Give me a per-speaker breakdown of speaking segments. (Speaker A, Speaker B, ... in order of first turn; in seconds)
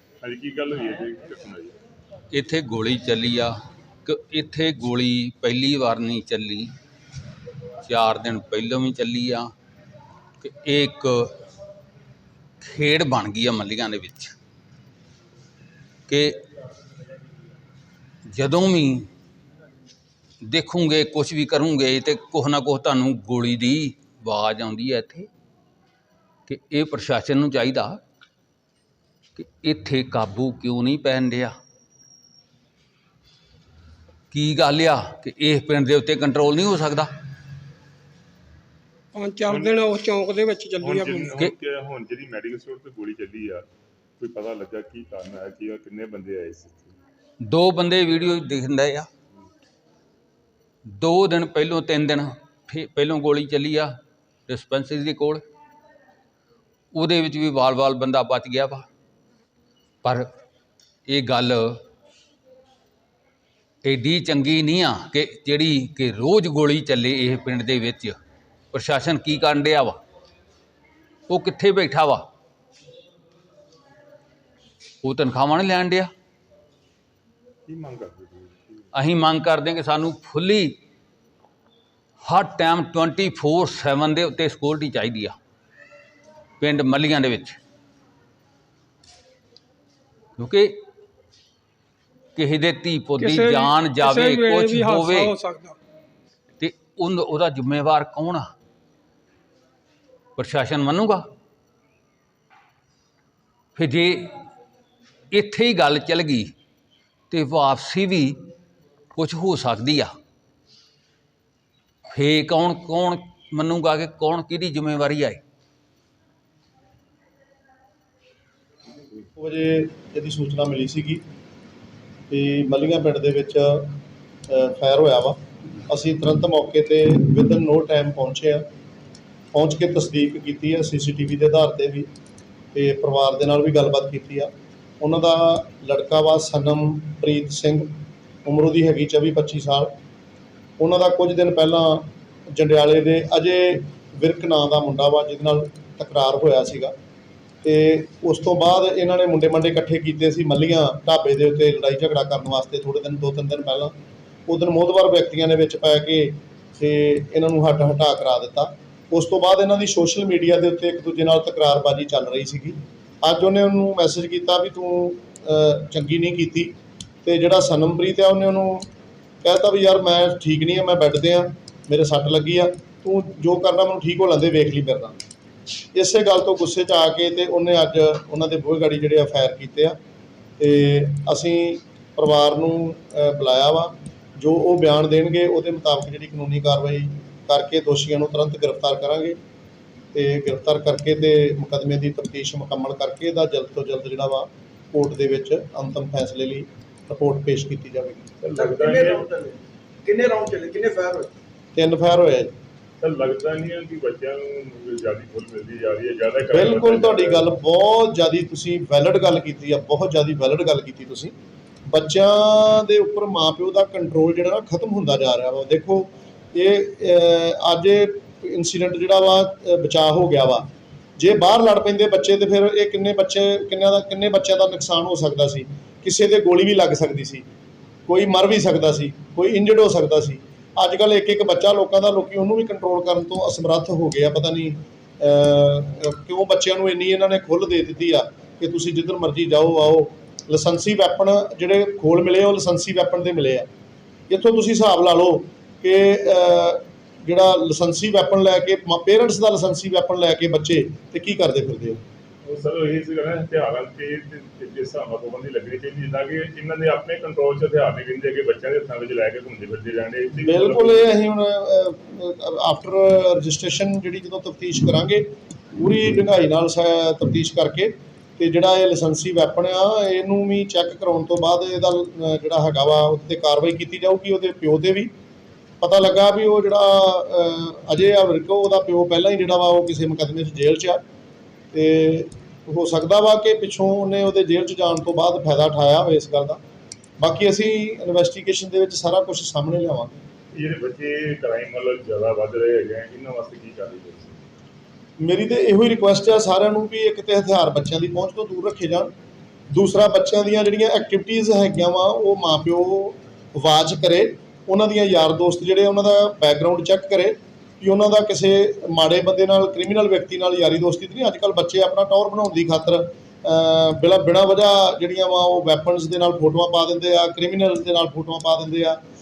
Speaker A: 0.2-1.8, 39.5-39.9, 40.8-43.6, 44.2-47.0, 77.7-78.9, 198.4-199.3, 203.0-207.5, 252.4-261.1, 290.6-294.4
Speaker B: 2.3-3.5, 4.0-6.7, 7.8-9.5, 10.4-11.3, 12.6-14.4, 16.1-16.4, 18.3-19.1, 20.4-25.3, 26.5-28.0, 29.4-31.5, 34.3-37.1, 47.4-49.1, 50.9-53.9, 54.5-55.4, 56.9-58.9, 61.1-61.8, 63.8-68.2, 68.7-70.0, 71.3-72.3, 75.0-76.1, 78.9-80.8, 82.2-85.4, 86.6-87.6, 90.4-90.8, 92.4-95.4, 96.6-98.5, 100.4-101.3, 103.8-104.3, 105.3-106.5, 107.3-108.4, 109.2-110.1, 112.1-115.4
Speaker C: 39.1-41.4, 93.2-95.8
Speaker D: 119.3-121.2, 122.3-128.7, 129.5-132.1, 132.7-139.9, 140.8-146.9, 147.6-153.9, 154.5-168.9, 169.4-175.2, 175.9-180.0, 180.6-189.4, 190.1-198.3, 201.7-202.5, 206.5-211.3, 211.9-227.4, 228.1-243.7, 244.3-252.0, 260.4-275.1, 275.8-281.0, 281.7-286.6, 287.2-290.2, 295.2-299.1, 299.7-319.0
Speaker E: 198.6-201.3